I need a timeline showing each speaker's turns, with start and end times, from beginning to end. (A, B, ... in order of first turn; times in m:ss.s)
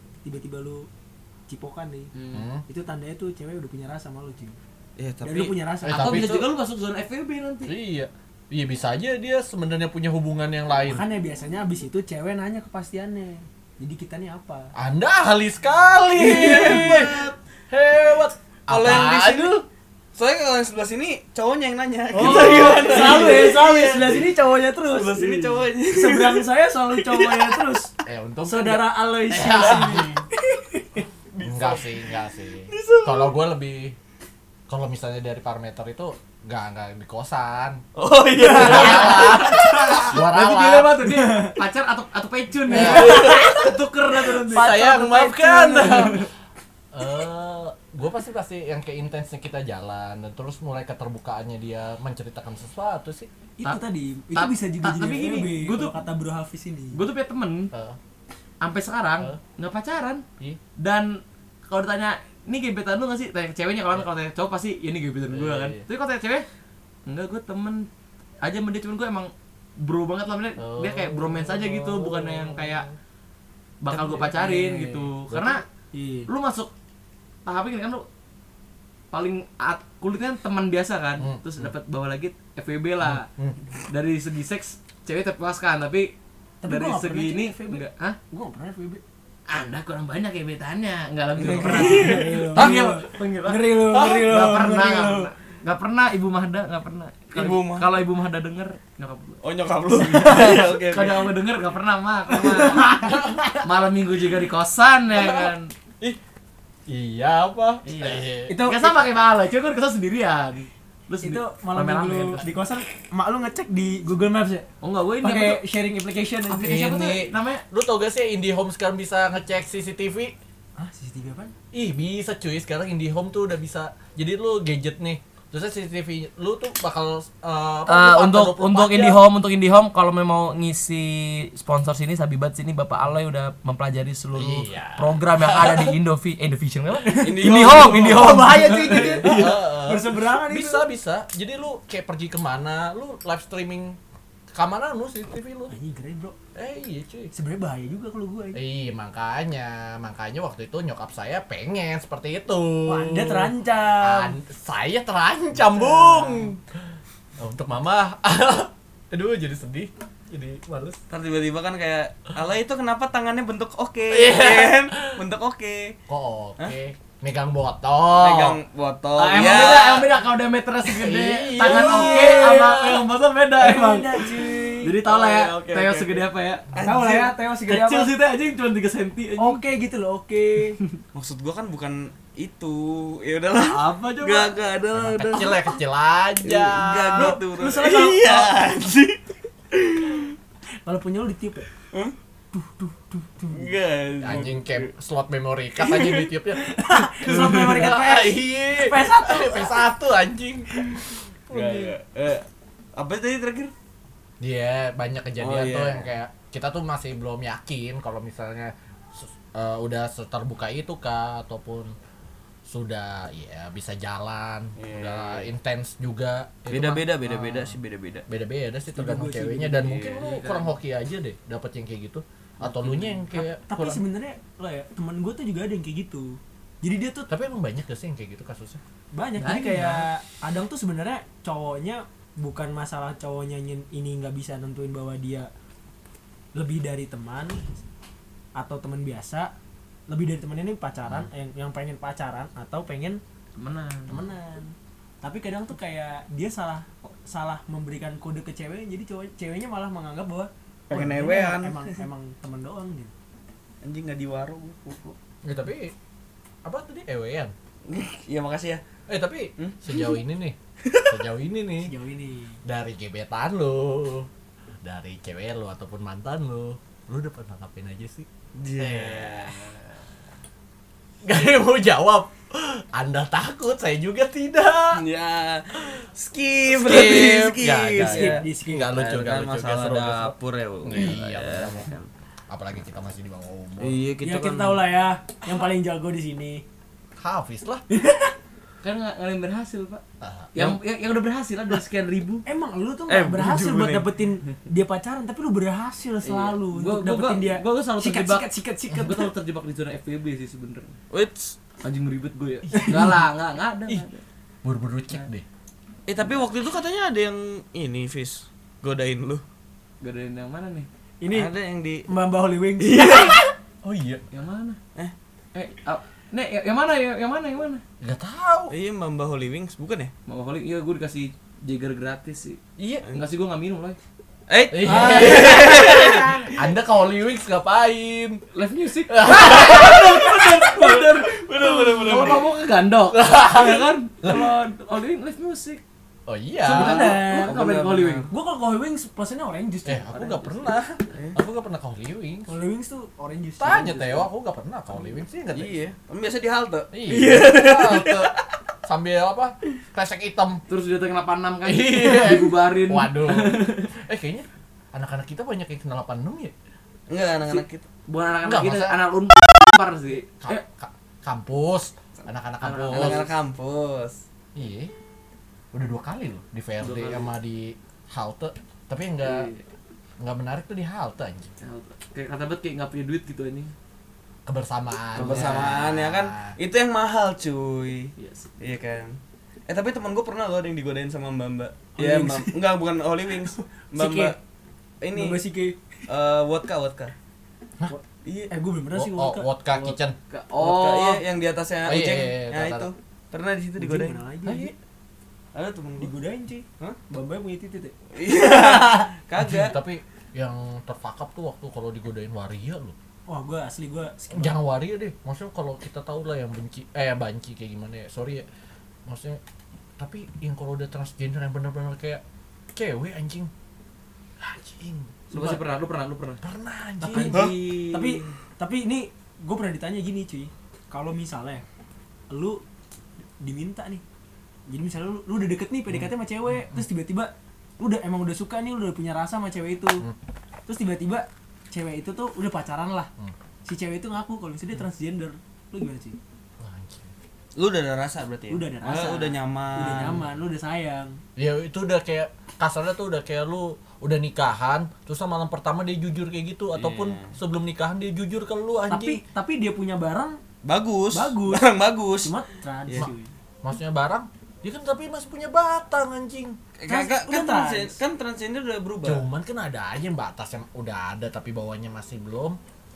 0:00.2-0:00.9 A
0:01.5-0:02.1 A
0:02.1-0:02.4 B
0:02.3-0:02.6 C
0:02.7-0:04.6 A
0:05.0-0:05.6 D
0:05.2-0:06.3 A
0:05.8-0:06.5 C
0:05.9-0:07.7 B
0:07.6-0:11.0 C
0:10.8-0:14.7 A
0:14.7-0:19.6 C
0:16.2-0:17.4 D
0:18.7-0:19.6 D
0:20.1-0:24.3 D
0:22.1-0:27.9 A
0:22.2-0:23.5 C
0:24.8-0:27.8 D
0:28.0-0:30.2 C
0:28.4-0:31.0 A
0:31.3-0:32.0 D
0:31.4-0:34.0 C
0:32.7-0:33.3 D
0:34.7-0:37.8 C
0:38.0-0:40.1 D
0:38.4-0:46.2 B
0:38.5-0:41.0 C
0:38.5-0:39.1 A
0:41.0-0:41.6 A
0:42.7-0:43.5 A
0:42.7-0:43.7 C
0:44.4-0:46.3 C
0:44.5-0:46.2 A
0:46.9-0:53.3 C
0:53.6-0:57.0 A
0:54.3-0:55.9 B
0:56.9-0:57.7 B
0:57.7-0:58.0 C
0:58.6-1:00.2 B
1:00.8-1:06.4 B
1:05.3-1:05.8 C
1:07.0-1:07.8 B
1:08.4-1:12.9 B
1:10.6-1:12.9 C
1:13.8-1:15.6 B
1:14.2-1:14.8 D
1:15.3-1:15.6 C
1:15.9-1:16.3 A
1:16.3-1:16.7 B
1:17.4-1:18.0 B
1:19.1-1:23.3 B
1:21.2-1:21.7 C
1:23.0-1:23.6 C
1:23.9-1:26.1 B
1:26.6-1:29.0 A
1:26.6-1:28.2 B
1:29.5-1:39.4 B
1:31.4-1:35.3 A
1:31.4-1:32.8 D
1:37.3-1:37.9 D
1:39.4-1:41.3 D
1:40.0-1:45.7 B
1:42.7-1:43.4 A
1:43.0-1:43.4 C
1:45.1-1:46.2 C
1:46.9-1:48.6 C
1:47.8-1:52.5 B
1:48.5-1:49.0 A
1:51.2-1:54.7 A
1:54.8-1:55.6 B
1:55.2-1:56.8 A
1:56.5-1:57.6 B
1:56.6-2:00.3 C
2:00.8-2:01.5 A
2:01.7-2:09.2 C
2:07.9-2:19.6 B
2:14.3-2:16.0 C
2:17.1-2:18.4 D
2:17.6-2:20.9 A
2:19.2-2:24.0 C
2:24.5-2:25.7 C
2:25.7-2:26.4 A
2:26.5-2:27.3 C
2:27.3-2:28.6 A
2:28.5-2:36.8 C
2:32.8-2:34.4 A
2:35.6-2:36.5 A
2:37.4-2:41.0 C
2:41.1-2:46.0 D
2:44.1-2:45.1 C
2:46.1-2:48.6 C
2:48.2-2:50.1 D
2:49.2-2:59.6 B
2:50.9-2:53.0 C
2:51.6-2:52.7 A
2:53.6-2:54.9 A
2:55.0-2:57.3 D
2:56.8-2:58.1 A
2:59.4-3:00.8 A
3:01.1-3:05.8 D
3:03.6-3:04.6 B
3:04.9-3:07.4 C
3:06.4-3:09.2 D
3:07.1-3:08.6 A
3:09.7-3:10.3 D
3:10.8-3:11.7 A
3:12.5-3:13.7 A
3:13.5-3:14.9 D
3:14.2-3:21.9 C
3:15.9-3:16.3 D
3:16.5-3:19.8 A
3:21.5-3:23.7 D
3:24.4-3:31.9 C
3:25.4-3:26.1 D
3:32.6-3:44.0 C
3:34.8-3:35.5 D
3:36.7-3:38.2 D
3:38.9-3:40.0 A
3:39.8-3:40.2 D
3:40.2-3:40.7 B
3:42.6-3:43.2 D
3:43.3-3:47.3 A
3:47.3-3:48.8 C
3:49.1-3:55.5 A
3:49.4-3:50.1 B
3:56.5-3:57.7 A
3:58.6-3:59.5 A
4:00.1-4:03.2 A
4:03.6-4:04.2 B
4:04.1-4:13.1 A
4:10.9-4:11.9 D
4:13.8-4:15.2 D
4:15.4-4:15.9 C
4:16.6-4:17.5 C
4:17.9-4:18.8 D
4:19.1-4:21.9 C
4:19.6-4:20.0 D
4:20.8-4:21.1 D
4:21.8-4:22.6 A
4:22.6-4:24.3 C
4:24.8-4:29.7 C
4:28.6-4:29.8 D
4:31.2-4:35.0 C
4:34.9-4:42.1 D
4:36.7-4:40.3 C
4:38.0-4:38.9 A
4:40.8-4:41.9 C
4:42.5-4:44.0 C
4:43.8-4:44.9 D
4:44.2-4:46.6 A
4:47.2-4:47.8 C
4:47.9-4:48.3 A
4:48.8-4:50.0 B
4:50.2-4:50.5 C
4:50.5-4:52.4 B
4:52.4-4:59.3 A
4:53.1-4:54.1 D
4:56.2-5:01.0 B
5:01.1-5:01.6 D
5:01.8-5:04.2 B
5:02.7-5:03.0 A
5:02.8-5:03.2 C
5:04.6-5:05.4 C
5:06.1-5:09.4 D
5:10.0-5:10.9 B
5:11.2-5:11.5 A
5:11.3-5:12.1 D
5:12.1-5:13.3 A
5:12.8-5:13.5 D
5:13.8-5:14.2 C
5:14.3-5:14.8 B
5:15.5-5:17.8 B
5:18.0-5:18.7 C
5:18.7-5:20.1 D
5:20.3-5:22.6 B
5:22.8-5:23.0 C
5:23.1-5:24.0 B
5:24.5-5:26.5 D
5:24.7-5:28.4 C
5:24.9-5:25.5 A
5:28.5-5:35.8 B
5:29.1-5:30.7 C
5:30.7-5:32.5 D
5:33.1-5:34.5 C
5:36.3-5:37.3 C
5:36.6-5:37.6 A
5:36.7-5:38.3 B
5:37.0-5:38.3 D
5:38.3-5:40.1 A
5:39.8-5:42.5 C
5:40.1-5:40.7 B
5:42.5-5:43.9 A
5:43.6-5:45.7 C
5:43.7-5:44.2 B
5:45.5-5:48.4 D
5:46.9-5:48.3 C
5:48.8-5:50.6 C
5:50.7-5:53.9 B
5:51.6-5:56.5 C
5:57.1-5:57.8 D
5:57.5-6:00.6 B
5:58.4-5:59.0 C
6:00.4-6:03.3 C
6:02.6-6:03.3 B
6:02.9-6:04.2 D
6:04.5-6:04.9 C
6:05.7-6:09.5 C
6:06.8-6:07.3 B
6:09.2-6:09.6 B
6:10.2-6:11.5 C
6:11.6-6:13.7 B
6:14.4-6:16.5 C
6:15.1-6:24.4 D
6:15.2-6:15.8 B
6:18.2-6:18.5 B
6:22.0-6:22.8 A
6:23.6-6:24.4 A
6:25.0-6:25.4 D
6:25.1-6:25.8 A
6:26.1-6:27.1 D
6:27.8-6:30.0 A
6:28.2-6:28.5 D
6:28.9-6:30.2 C
6:30.3-6:31.2 B
6:30.6-6:34.7 D
6:31.8-6:32.9 C
6:33.8-6:34.7 A
6:35.5-6:36.1 D
6:36.0-6:37.9 A
6:38.1-6:39.8 D
6:39.4-6:42.9 C
6:43.3-6:44.6 A
6:44.3-6:48.4 C
6:49.1-6:49.4 C
6:50.0-6:52.2 C
6:52.7-6:53.5 C
6:54.4-6:55.1 C
6:55.3-6:56.4 B
6:56.4-6:57.4 C
6:57.0-7:01.6 A
6:57.1-6:58.2 B
6:57.3-6:57.8 D
7:02.3-7:02.6 A
7:03.4-7:04.0 A
7:04.7-7:10.0 A
7:05.9-7:06.8 C
7:10.6-7:13.1 A
7:13.6-7:16.2 A
7:16.6-7:17.1 C
7:17.6-7:20.3 D
7:18.5-7:21.2 A
7:21.4-7:29.2 C
7:26.7-7:27.3 D
7:28.9-7:30.4 A
7:30.6-7:32.3 D
7:31.1-7:33.3 A
7:33.6-7:36.6 C
7:36.8-7:39.2 D
7:36.9-7:38.0 A
7:39.0-7:42.6 C